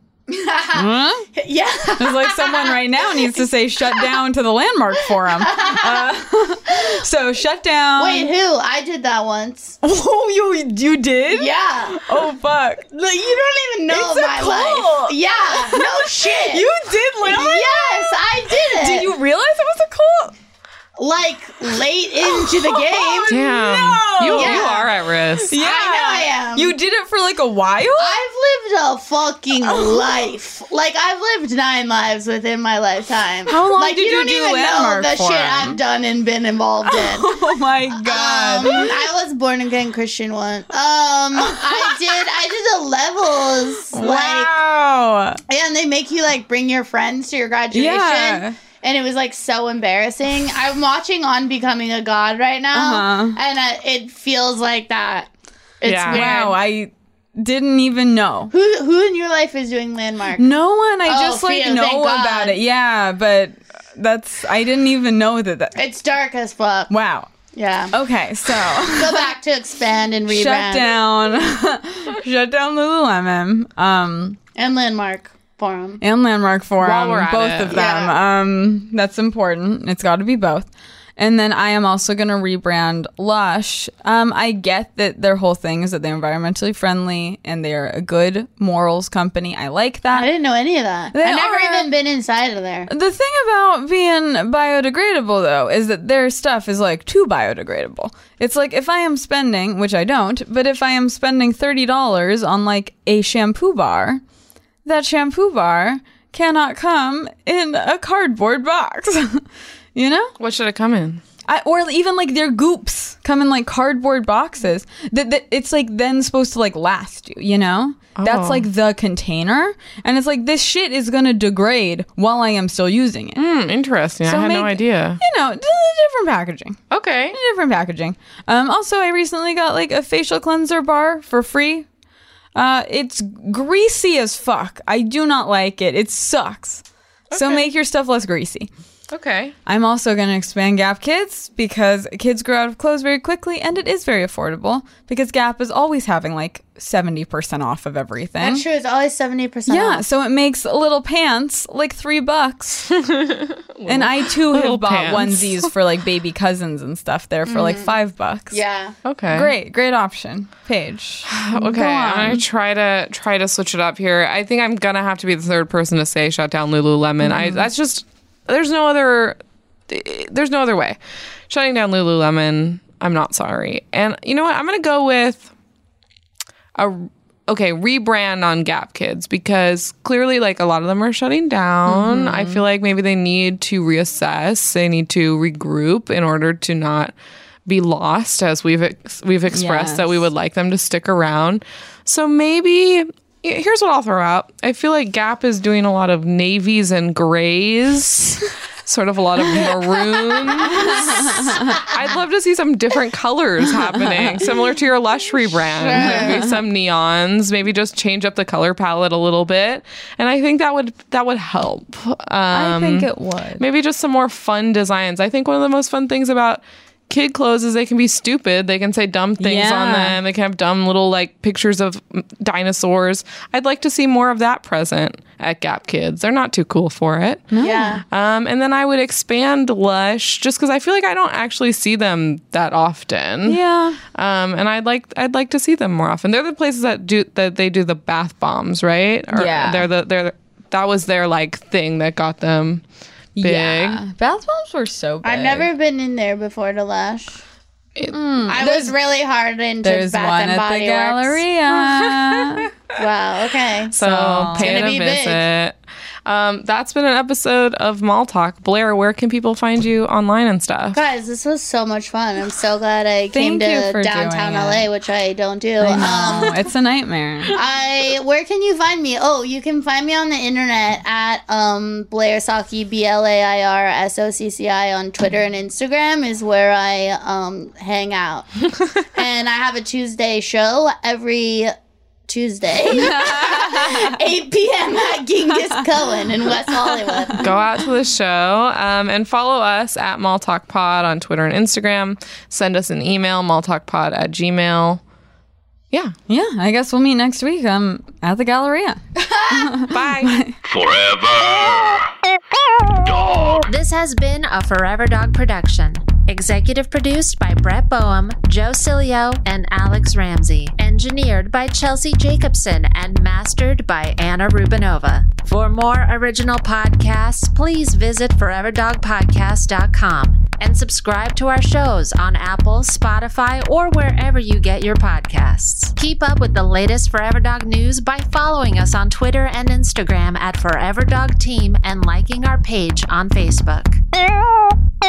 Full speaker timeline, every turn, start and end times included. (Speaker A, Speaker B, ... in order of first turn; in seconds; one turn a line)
Speaker A: 0.3-3.4
Speaker B: 0.7-1.3
Speaker B: 2.0-8.3
Speaker A: 5.2-6.1
Speaker A: 8.0-9.8
Speaker B: 9.8-12.8
Speaker A: 11.3-12.1
Speaker A: 12.9-16.7
Speaker B: 13.9-20.3
Speaker A: 17.2-19.1
Speaker A: 21.0-23.3
Speaker B: 22.2-24.9
Speaker C: 23.3-25.6
Speaker A: 24.3-24.9
Speaker B: 25.4-28.2
Speaker A: 25.6-26.8
Speaker A: 28.0-37.3
Speaker B: 29.6-30.0
Speaker B: 33.5-35.8
Speaker B: 36.9-39.1
Speaker A: 37.9-44.5
Speaker B: 41.4-42.0
Speaker B: 43.9-45.4
Speaker A: 45.5-55.3
Speaker B: 47.7-48.5
Speaker B: 52.7-53.4
Speaker A: 55.8-56.5
Speaker C: 55.8-56.4
Speaker B: 56.1-58.5
Speaker A: 58.5-60.5
Speaker B: 60.4-65.8
Speaker A: 61.0-62.6
Speaker A: 65.7-66.9
Speaker B: 66.9-67.3
Speaker A: 67.5-67.9
Speaker B: 67.9-69.3
Speaker A: 68.6-70.9
Speaker B: 70.3-74.4
Speaker A: 74.5-76.0
Speaker B: 76.0-90.3
Speaker C: 76.8-77.8
Speaker A: 77.7-78.1
Speaker A: 90.1-92.9
Speaker B: 91.1-91.9
Speaker B: 92.9-104.2
Speaker B: 104.8-110.3
Speaker C: 110.4-111.2
Speaker B: 111.5-123.4
Speaker C: 118.2-118.7
Speaker C: 123.3-125.2
Speaker B: 124.2-126.8
Speaker C: 126.9-127.4
Speaker B: 127.3-131.9
Speaker B: 132.5-138.7
Speaker C: 137.3-137.7
Speaker C: 139.1-139.5
Speaker B: 139.7-148.6
Speaker A: 148.4-150.0
Speaker B: 149.7-152.9
Speaker C: 152.9-155.7
Speaker B: 153.8-158.6
Speaker A: 157.5-157.9
Speaker A: 158.5-158.9
Speaker C: 159.0-159.5
Speaker B: 159.3-162.4
Speaker C: 161.3-169.4
Speaker B: 167.3-167.6
Speaker C: 169.9-171.0
Speaker C: 171.5-175.5
Speaker C: 176.8-187.1
Speaker B: 181.9-182.6
Speaker C: 187.7-213.1
Speaker B: 189.5-190.3
Speaker B: 200.7-201.8
Speaker B: 203.9-204.3
Speaker A: 205.7-206.5
Speaker B: 206.0-206.4
Speaker B: 212.5-213.6
Speaker C: 213.6-233.6
Speaker B: 219.4-220.2
Speaker B: 227.5-228.0
Speaker A: 227.6-228.0
Speaker B: 233.4-234.0
Speaker C: 234.1-242.8
Speaker B: 239.3-239.9
Speaker B: 243.4-245.7
Speaker C: 243.4-244.0
Speaker A: 245.2-247.4
Speaker B: 248.1-248.9
Speaker A: 248.5-251.4
Speaker B: 249.8-252.7
Speaker C: 252.2-252.5
Speaker A: 252.9-253.9
Speaker C: 253.9-261.0
Speaker B: 254.0-254.9
Speaker A: 254.5-255.4
Speaker A: 260.9-266.6
Speaker B: 263.3-264.9
Speaker B: 265.8-267.5
Speaker A: 267.5-278.5
Speaker A: 279.1-281.7
Speaker A: 282.3-287.5
Speaker B: 282.9-284.1
Speaker B: 286.9-287.5
Speaker C: 287.4-295.0
Speaker B: 296.3-300.6
Speaker A: 299.3-299.7
Speaker C: 299.9-300.4
Speaker D: 300.6-302.1
Speaker D: 303.0-303.7
Speaker E: 303.7-334.0